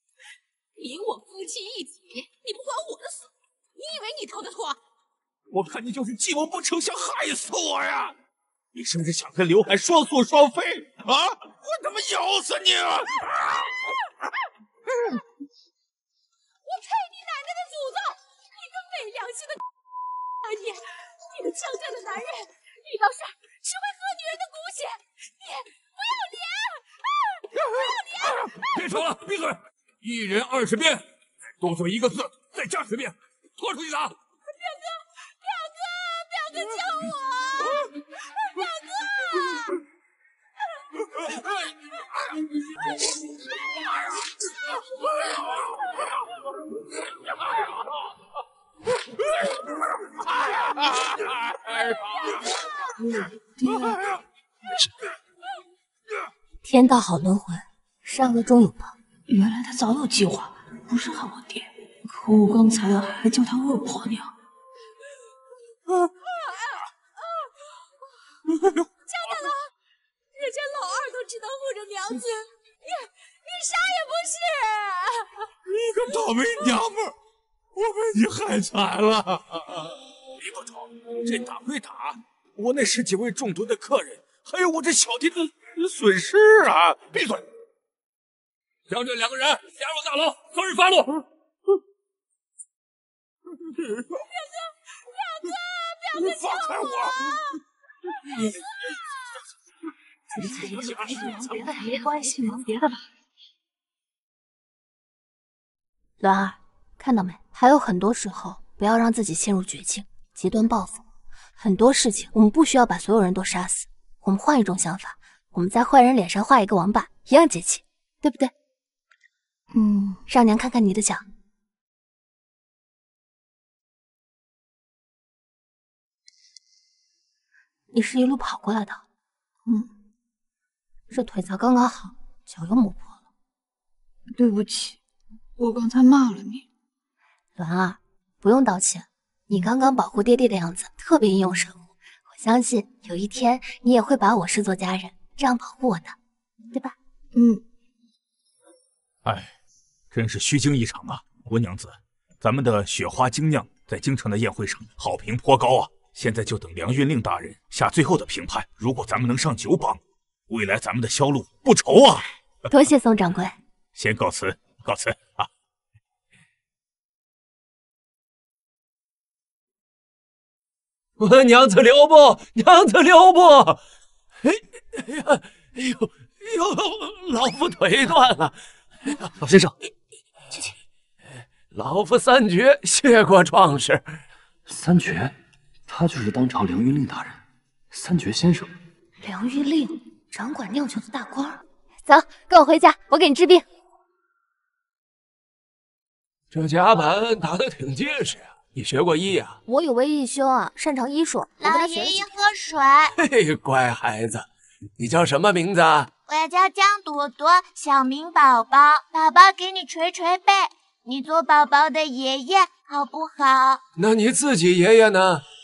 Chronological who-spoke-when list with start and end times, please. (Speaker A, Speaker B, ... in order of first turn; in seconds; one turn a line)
Speaker A: 0.8-4.8
Speaker B: 5.5-8.2
Speaker B: 8.7-13.7
Speaker A: 16.6-19.6
Speaker A: 20.4-28.8
Speaker C: 28.6-31.0
Speaker C: 31.6-34.2
Speaker A: 34.5-39.8
Speaker C: 51.6-52.0
Speaker D: 53.1-54.1
Speaker E: 56.6-59.0
Speaker D: 59.3-64.3
Speaker A: 66.2-66.8
Speaker A: 69.1-69.7
Speaker A: 70.3-75.5
Speaker B: 75.7-77.1
Speaker B: 77.8-87.5
Speaker C: 88.9-91.2
Speaker A: 94.2-97.6
Speaker B: 96.2-97.3
Speaker A: 98.4-99.3
Speaker E: 100.4-103.0
Speaker D: 100.5-101.9
Speaker E: 106.2-111.0
Speaker E: 111.6-118.5
Speaker D: 119.7-120.2
Speaker E: 120.3-121.2
Speaker E: 127.9-129.0
Speaker E: 131.1-133.2
Speaker D: 134.3-135.0
Speaker D: 135.6-136.7
Speaker E: 137.6-146.2
Speaker D: 147.3-147.6
Speaker B: 149.2-149.5
Speaker B: 150.1-162.3
Speaker E: 162.7-163.6
Speaker B: 164.0-165.5
Speaker F: 171.2-173.8
Speaker F: 174.4-179.3
Speaker G: 179.4-179.8
Speaker F: 181.7-184.1
Speaker G: 184.7-185.4
Speaker G: 185.9-188.7
Speaker E: 189.2-193.7
Speaker F: 196.5-199.6
Speaker E: 199.7-202.2
Speaker H: 201.6-203.2
Speaker F: 203.2-204.5
Speaker F: 205.0-206.1
Speaker H: 206.3-213.8
Speaker F: 214.0-215.4